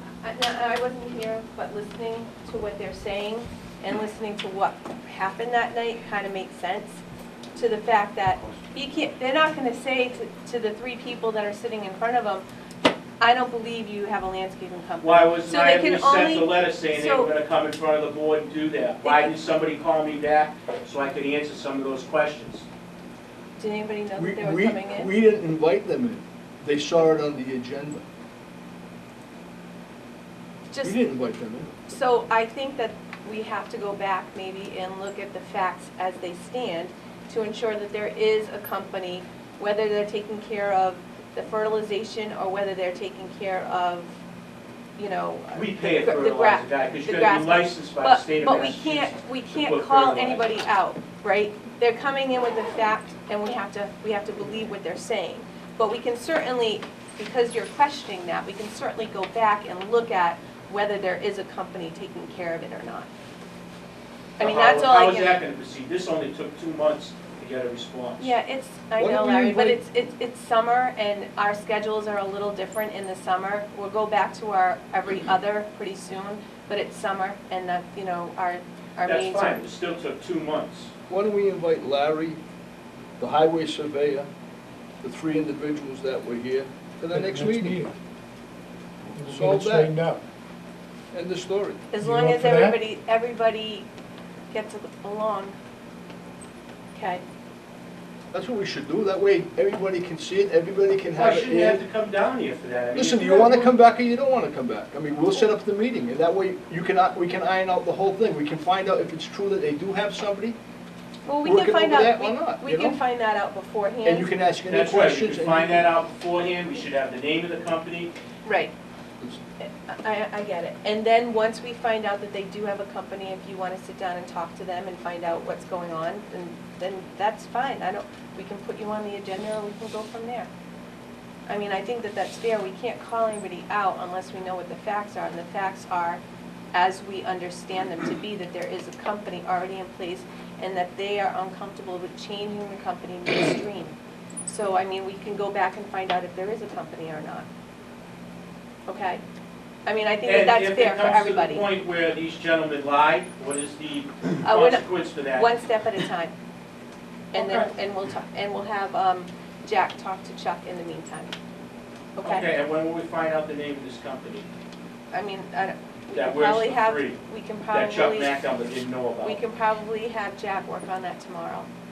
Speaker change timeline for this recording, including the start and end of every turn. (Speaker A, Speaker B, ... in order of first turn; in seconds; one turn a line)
Speaker A: 0.2-7.0
Speaker A: 7.5-12.4
Speaker A: 13.2-17.3
Speaker B: 15.0-22.6
Speaker A: 19.0-19.3
Speaker A: 23.6-25.1
Speaker C: 24.1-28.0
Speaker A: 30.7-31.0
Speaker C: 30.8-31.7
Speaker A: 31.9-44.1
Speaker A: 45.0-63.1
Speaker B: 45.5-50.5
Speaker A: 64.4-65.4
Speaker B: 64.4-68.3
Speaker A: 68.2-79.6
Speaker C: 69.0-69.8
Speaker B: 79.0-80.9
Speaker C: 81.1-82.4
Speaker C: 83.2-84.3
Speaker C: 85.0-87.8
Speaker D: 87.1-87.9
Speaker D: 89.1-90.2
Speaker C: 89.2-89.9
Speaker C: 91.1-91.8
Speaker A: 91.9-93.9
Speaker D: 92.0-92.8
Speaker A: 94.5-95.5
Speaker A: 96.9-97.2
Speaker C: 98.3-101.8
Speaker B: 101.2-103.7
Speaker C: 102.9-110.6
Speaker A: 111.2-114.3
Speaker C: 111.4-113.0
Speaker C: 114.0-115.8
Speaker B: 114.7-118.1
Speaker A: 118.4-118.7
Speaker A: 119.8-130.5
Speaker A: 131.5-136.2
Speaker A: 136.7-147.4
Speaker A: 148.9-149.2
Speaker A: 149.8-151.7
Speaker B: 150.2-155.5
Speaker A: 154.4-156.3
Speaker A: 157.3-161.3
Speaker B: 157.3-157.7
Speaker A: 162.2-162.5
Speaker B: 162.2-164.4
Speaker A: 165.1-168.4
Speaker B: 166.1-167.2
Speaker B: 167.7-169.4
Speaker A: 169.2-171.7